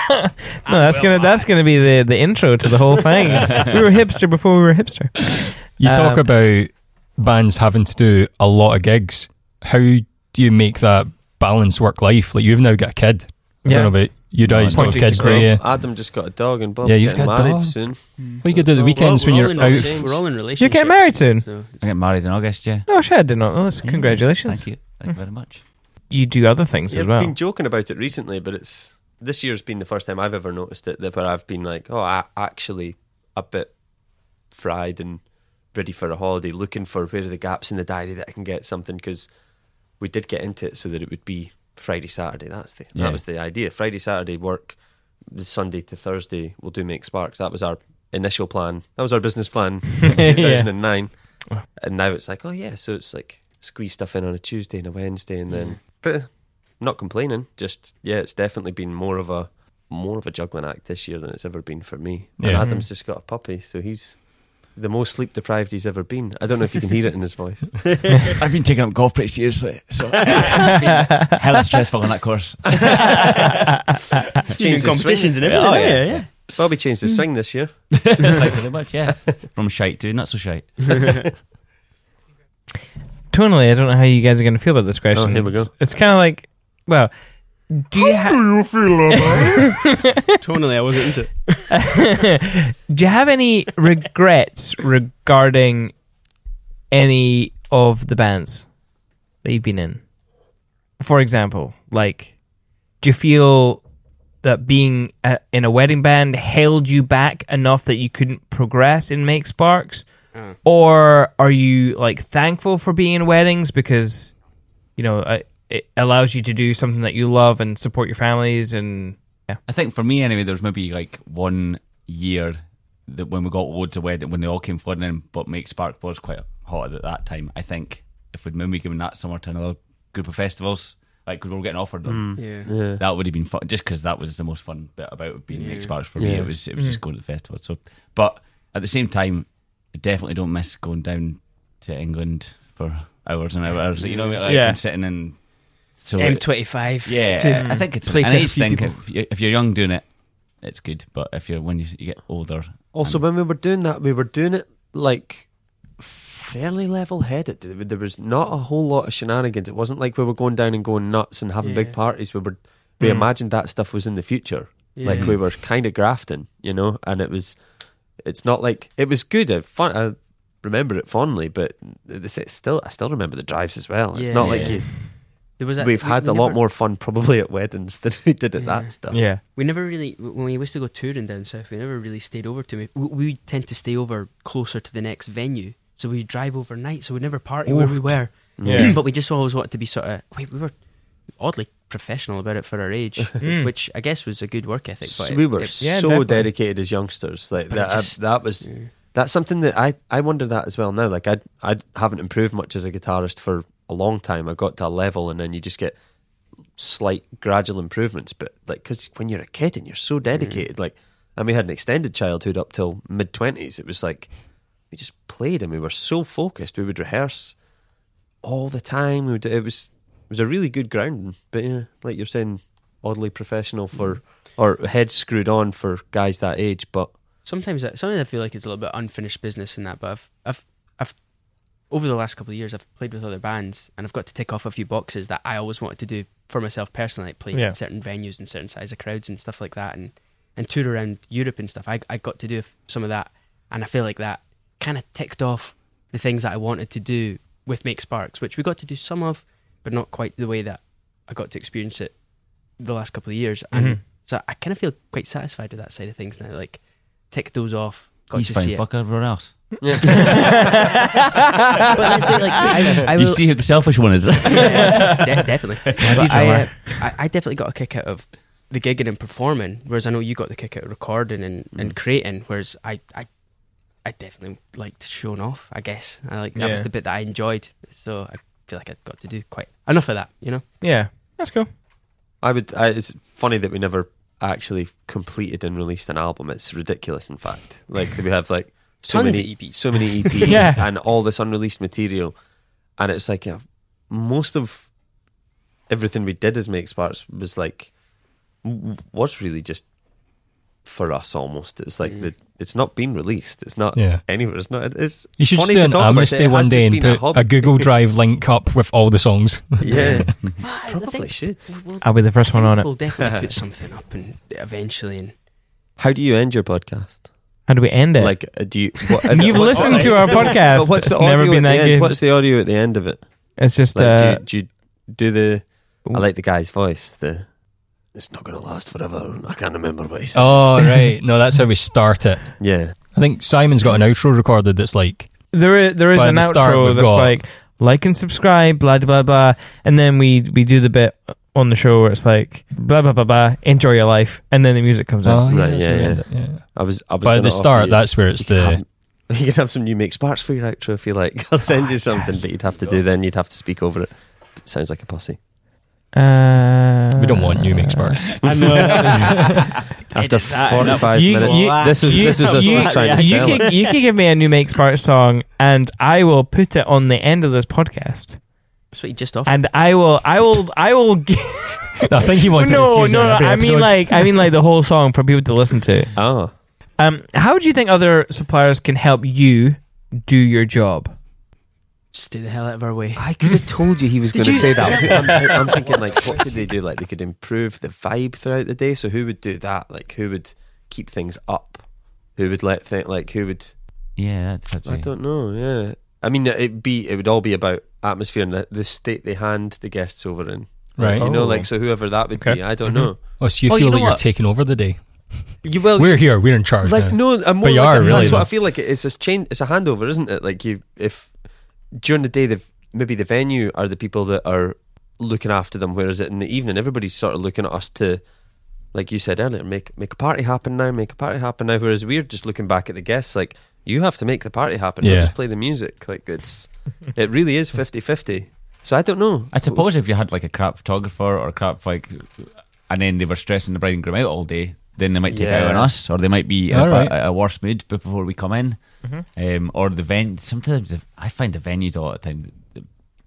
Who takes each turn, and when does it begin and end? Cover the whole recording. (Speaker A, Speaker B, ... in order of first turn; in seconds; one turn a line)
Speaker A: 0.6-1.6
Speaker B: 0.6-6.3
Speaker C: 5.8-15.7
Speaker B: 13.6-15.5
Speaker D: 14.4-15.4
Speaker E: 15.0-20.2
Speaker C: 16.8-20.2
Speaker A: 18.2-21.9
Speaker B: 20.5-21.5
Speaker D: 21.8-25.6
Speaker B: 22.9-25.2
Speaker B: 26.1-27.3
Speaker E: 26.9-39.3
Speaker E: 40.0-68.2
Speaker D: 42.9-43.2
Speaker B: 50.1-51.6
Speaker A: 55.5-55.8
Speaker C: 62.4-62.7
Speaker B: 62.6-62.9
Speaker D: 68.4-73.5
Speaker A: 70.3-71.1
Speaker A: 74.5-76.3
Speaker E: 74.5-75.6
Speaker D: 75.4-76.7
Speaker B: 75.7-76.2
Speaker E: 76.5-78.3
Speaker D: 78.0-81.3
Speaker B: 83.3-89.5
Speaker E: 85.1-85.7
Speaker E: 88.1-89.7
Speaker A: 90.4-91.7
Speaker B: 91.7-96.0
Speaker B: 96.9-98.7
Speaker B: 99.4-100.1
Speaker B: 101.0-102.4
Speaker B: 103.0-103.8
Speaker B: 104.4-114.4
Speaker B: 115.0-119.6
Speaker D: 119.7-153.2
Speaker E: 132.1-133.0
Speaker A: 132.4-132.7
Speaker A: 135.5-135.9
Speaker E: 136.2-136.5
Speaker B: 136.8-137.0
Speaker A: 144.0-144.4
Speaker B: 144.4-144.8
Speaker A: 146.2-148.9
Speaker B: 147.6-147.8
Speaker E: 152.9-167.6
Speaker A: 161.6-162.0
Speaker B: 163.0-163.3
Speaker A: 164.9-165.3
Speaker D: 165.1-165.4
Speaker E: 168.1-179.2
Speaker A: 174.1-176.6
Speaker D: 174.4-174.8
Speaker A: 178.6-195.8
Speaker B: 179.1-179.4
Speaker B: 187.7-188.9
Speaker E: 188.6-188.9
Speaker B: 193.4-193.7
Speaker E: 195.0-206.0
Speaker B: 195.8-196.5
Speaker A: 197.7-198.9
Speaker E: 206.7-214.3
Speaker A: 210.3-210.7
Speaker E: 214.9-217.6
Speaker E: 218.4-227.1
Speaker A: 227.4-259.3
Speaker B: 237.5-237.8
Speaker B: 253.7-254.0
Speaker D: 258.3-260.3
Speaker E: 259.8-260.8
Speaker B: 260.0-260.5
Speaker A: 261.9-273.3
Speaker D: 263.1-265.3
Speaker D: 266.0-266.6
Speaker B: 266.0-267.0
Speaker A: 274.0-280.6
Speaker B: 276.5-276.9
Speaker B: 280.8-281.7
Speaker E: 282.4-292.3
Speaker A: 289.1-290.6
Speaker B: 290.4-290.9
Speaker E: 293.0-294.9
Speaker E: 295.9-297.9
Speaker E: 298.6-299.9
Speaker E: 300.8-307.9
Speaker A: 302.0-302.3
Speaker C: 303.9-304.2
Speaker C: 305.4-310.3
Speaker E: 309.8-311.6
Speaker A: 309.8-315.3
Speaker B: 312.0-312.9
Speaker E: 316.0-317.3
Speaker B: 317.7-322.1
Speaker E: 318.1-327.5
Speaker A: 319.4-320.6
Speaker D: 319.8-320.2
Speaker B: 323.6-324.4
Speaker E: 328.1-331.1
Speaker C: 330.3-337.4
Speaker E: 332.6-332.9
Speaker B: 335.5-345.8
Speaker C: 345.2-348.8
Speaker E: 345.5-355.4
Speaker B: 356.1-359.3
Speaker C: 357.2-359.7
Speaker D: 358.4-359.2
Speaker A: 358.5-359.2
Speaker E: 360.1-363.8
Speaker A: 360.1-364.0
Speaker B: 360.5-368.4
Speaker D: 360.7-361.4
Speaker A: 368.9-369.6
Speaker B: 369.4-376.2
Speaker C: 372.1-374.5
Speaker E: 376.1-376.5
Speaker B: 377.0-381.1
Speaker A: 382.1-383.3
Speaker E: 383.1-393.7
Speaker A: 384.3-386.3
Speaker B: 384.5-385.3
Speaker D: 394.1-395.1
Speaker E: 394.8-403.2
Speaker C: 400.9-401.3
Speaker B: 401.2-403.1
Speaker C: 402.9-408.5
Speaker D: 403.6-404.3
Speaker E: 405.6-411.3
Speaker E: 411.9-418.2
Speaker E: 418.9-429.9
Speaker C: 425.0-425.3
Speaker D: 429.5-442.9
Speaker E: 435.2-435.9
Speaker C: 436.7-437.1